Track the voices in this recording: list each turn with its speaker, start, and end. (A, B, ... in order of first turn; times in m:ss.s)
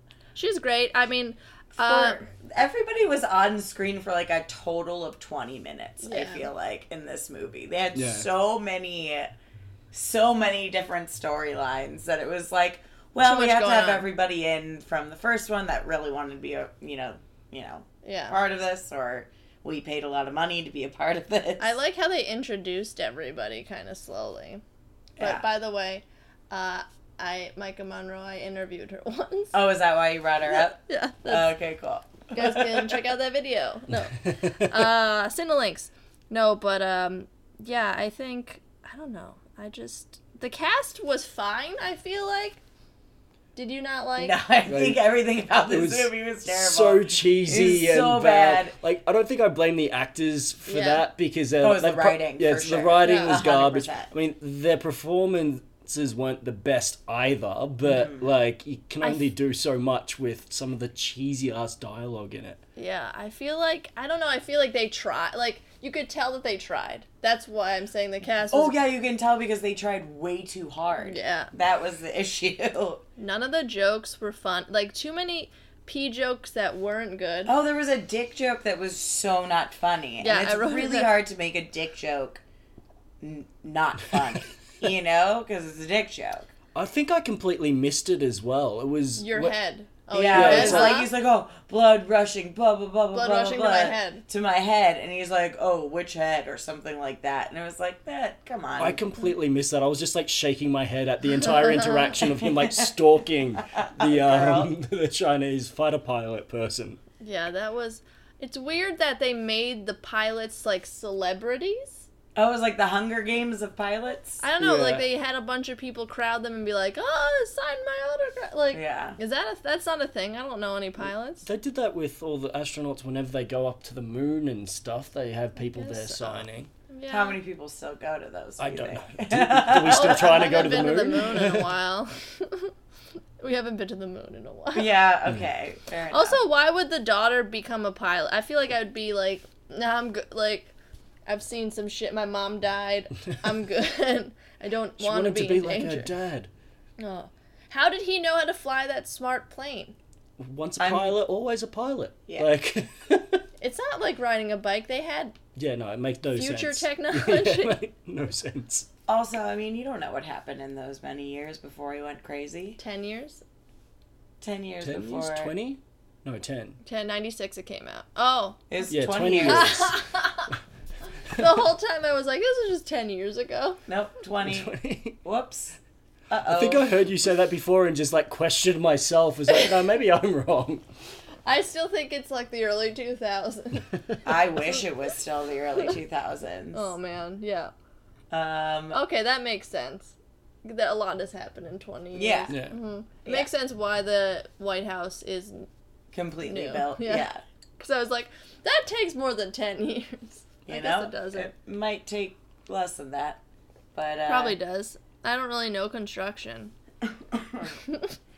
0:00.3-0:02.2 A
0:01.8-0:09.3 B
0:06.0-0:06.5 A
0:07.9-0:08.3 C
0:09.9-0:21.7 B
0:13.2-0:14.1 A
0:18.0-0:18.4 A
0:21.6-0:24.6 A
0:25.2-0:25.4 B
0:25.2-0:29.5 A
0:29.5-0:33.0 B
0:30.8-0:31.5 A
0:32.3-0:42.6 A
0:34.2-0:34.7 C
0:43.5-0:44.4 A
0:44.2-0:48.8 B
0:44.7-0:45.0 C
0:45.6-1:02.6 C
0:50.7-0:51.0 A
0:51.6-0:54.1 B
0:53.0-0:53.4 A
0:57.8-0:58.3 B
0:59.0-0:59.3 A
1:02.8-1:08.7 A
1:08.5-1:13.0 B
1:11.0-1:11.5 A
1:13.2-1:17.5 A
1:17.4-1:22.4 B
1:20.2-1:21.2 A
1:23.2-1:26.5 B
1:26.7-1:29.6 C
1:29.2-1:31.1 A
1:30.1-1:39.0 B
1:30.3-1:31.0 C
1:33.1-1:34.2 A
1:38.8-1:47.0 C
1:42.4-1:42.9 B
1:43.7-1:44.7 B
1:47.2-1:52.0 A
1:52.3-1:54.4 B
1:54.4-2:01.4 A
1:54.6-1:55.0 C
1:58.7-1:59.2 B
2:01.4-2:06.7 C
2:05.6-2:07.4 A
2:07.1-2:10.8 B
2:08.6-2:11.7 C
2:09.9-2:12.7 A
2:13.4-2:14.9 A
2:14.7-2:16.4 B
2:16.1-2:20.7 A
2:21.2-2:26.1 A
2:25.0-2:26.5 C
2:27.0-2:29.9 A
2:30.4-2:33.4 C
2:30.8-2:31.2 B
2:33.6-2:35.4 A
2:35.6-2:38.9 C
2:36.3-2:37.8 A
2:39.1-2:42.8 B
2:42.8-2:43.4 A
2:44.4-2:45.5 B
2:44.8-2:46.8 C
2:46.8-2:48.6 A
2:48.7-2:49.9 B
2:48.9-2:50.0 C
2:49.4-2:50.5 A
2:51.3-2:53.8 A
2:53.9-2:54.7 B
2:54.4-2:55.2 C
2:55.2-2:55.8 B
2:56.3-2:56.8 B
2:56.4-3:00.8 C
3:01.4-3:03.9 A
3:04.2-3:06.9 B
3:06.7-3:07.7 A
3:08.3-3:09.0 B
3:08.9-3:15.7 A
3:12.1-3:12.5 B
3:12.5-3:12.8 C
3:16.1-3:17.4 B
3:16.4-3:17.3 A
3:17.8-3:21.5 A
3:20.6-3:23.4 B
3:23.9-3:24.6 B
3:24.3-3:26.7 A
3:27.3-3:27.7 B
3:27.9-3:28.1 A